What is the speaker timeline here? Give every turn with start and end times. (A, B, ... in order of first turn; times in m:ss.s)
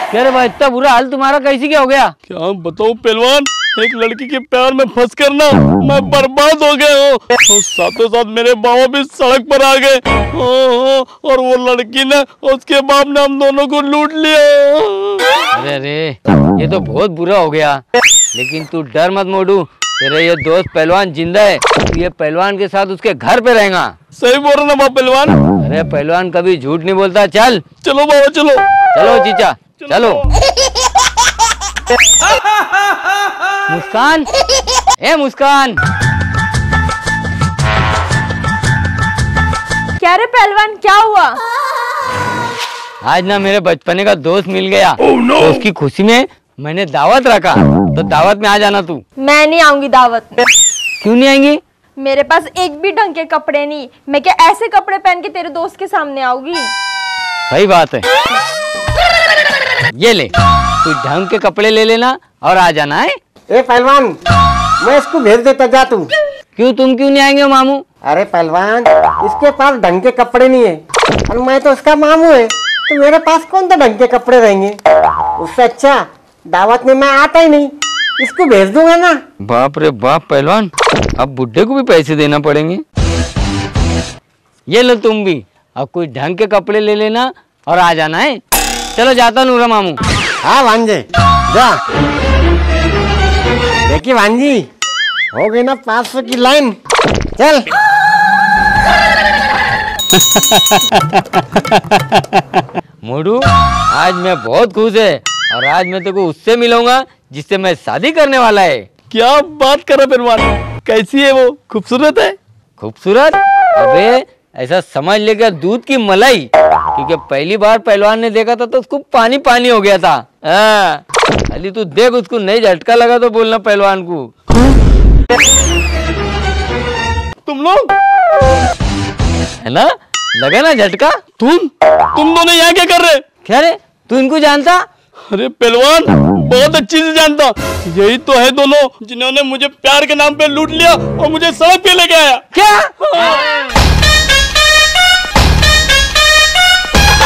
0:00.1-0:02.1 A
0:02.3-0:15.2 B
0:15.5-0:17.8 A
0:18.3-0:23.9 A
0:24.2-0:25.4 B
0:25.6-0:27.6 A
0:27.8-0:28.6 B
0:28.9-0:30.2 A
0:33.7-0:34.3 A
0:35.0-0:35.8 A
0:40.0-0:41.4 C
0:43.0-0:49.0 A
0:49.2-0:50.5 C
0:51.0-0:51.6 A
0:52.0-0:56.7 C
0:57.5-0:58.0 A
1:00.0-1:00.3 A
1:00.8-1:03.2 A
1:03.5-1:04.1 D
1:04.8-1:06.0 D
1:06.6-1:07.8 A
1:08.1-1:10.8 D
1:11.3-1:14.8 D
1:15.4-1:16.0 D
1:16.5-1:17.7 D
1:18.2-1:19.1 D
1:19.4-1:22.8 A
1:24.7-1:28.4 A
1:28.9-1:30.0 A
1:30.4-1:31.7 D
1:33.9-1:34.6 D
1:35.3-1:36.7 D
1:37.4-1:37.6 D
1:43.0-1:48.9 A
1:49.1-1:52.4 B
1:52.8-2:04.3 A
2:07.4-2:07.9 B
2:09.6-2:11.2 A
2:11.4-2:13.2 B
2:13.4-2:14.8 A
2:15.3-2:22.4 B
2:22.5-2:23.4 A